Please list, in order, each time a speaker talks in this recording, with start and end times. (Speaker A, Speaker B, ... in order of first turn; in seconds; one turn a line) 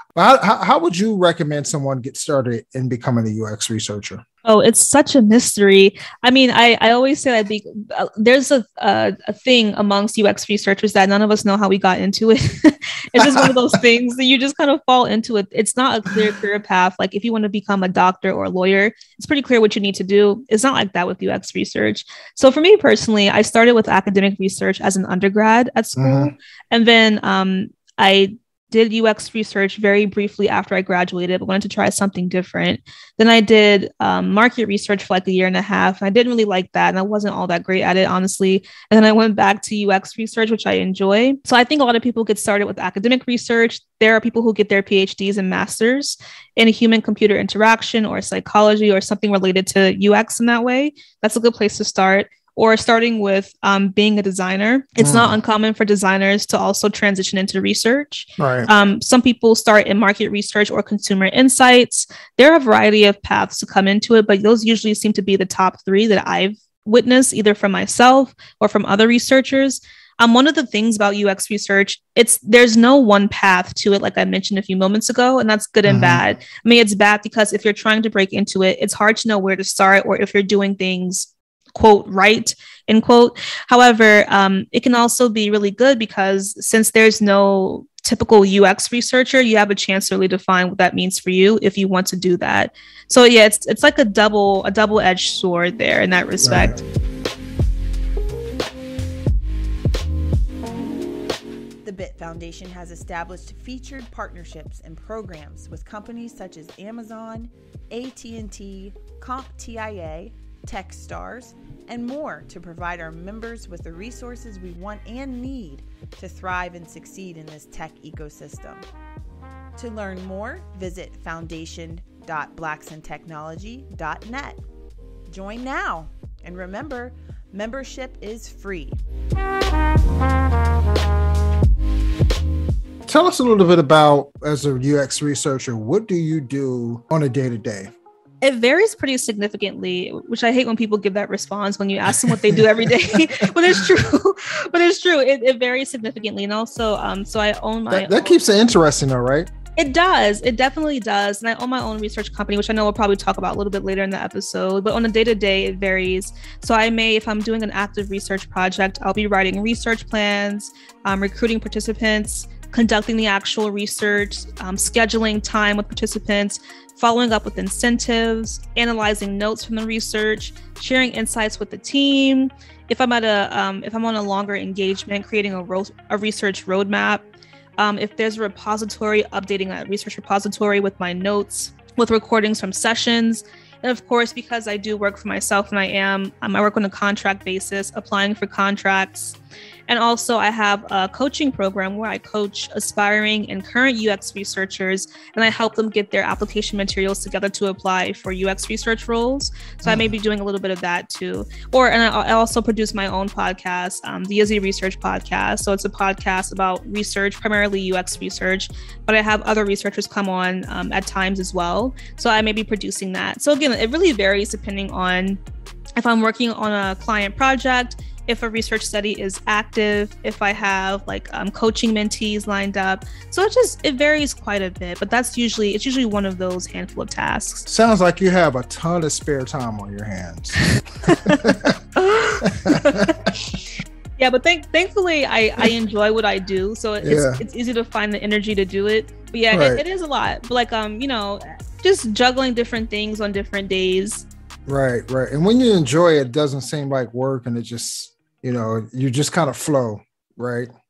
Speaker A: 0.1-4.2
Speaker B: 4.5-96.8
Speaker A: 13.2-13.5
Speaker A: 26.0-26.3
Speaker A: 55.0-55.3
Speaker A: 58.4-58.7
Speaker A: 75.9-76.2
Speaker A: 96.4-96.8
Speaker C: 101.8-118.8
Speaker C: 119.8-124.6
Speaker C: 125.3-129.0
Speaker A: 133.1-137.9
Speaker B: 138.4-148.1
Speaker A: 142.2-143.9
Speaker A: 147.9-149.5
Speaker B: 149.8-177.2
Speaker B: 177.8-189.4
Speaker B: 189.9-215.4
Speaker A: 199.8-200.1
Speaker B: 216.0-227.7
Speaker A: 227.7-231.8
Speaker B: 231.1-231.4
Speaker B: 232.0-233.6
Speaker A: 232.4-233.3
Speaker B: 234.2-244.3
Speaker A: 237.0-237.4
Speaker A: 239.5-239.8
Speaker A: 244.7-250.7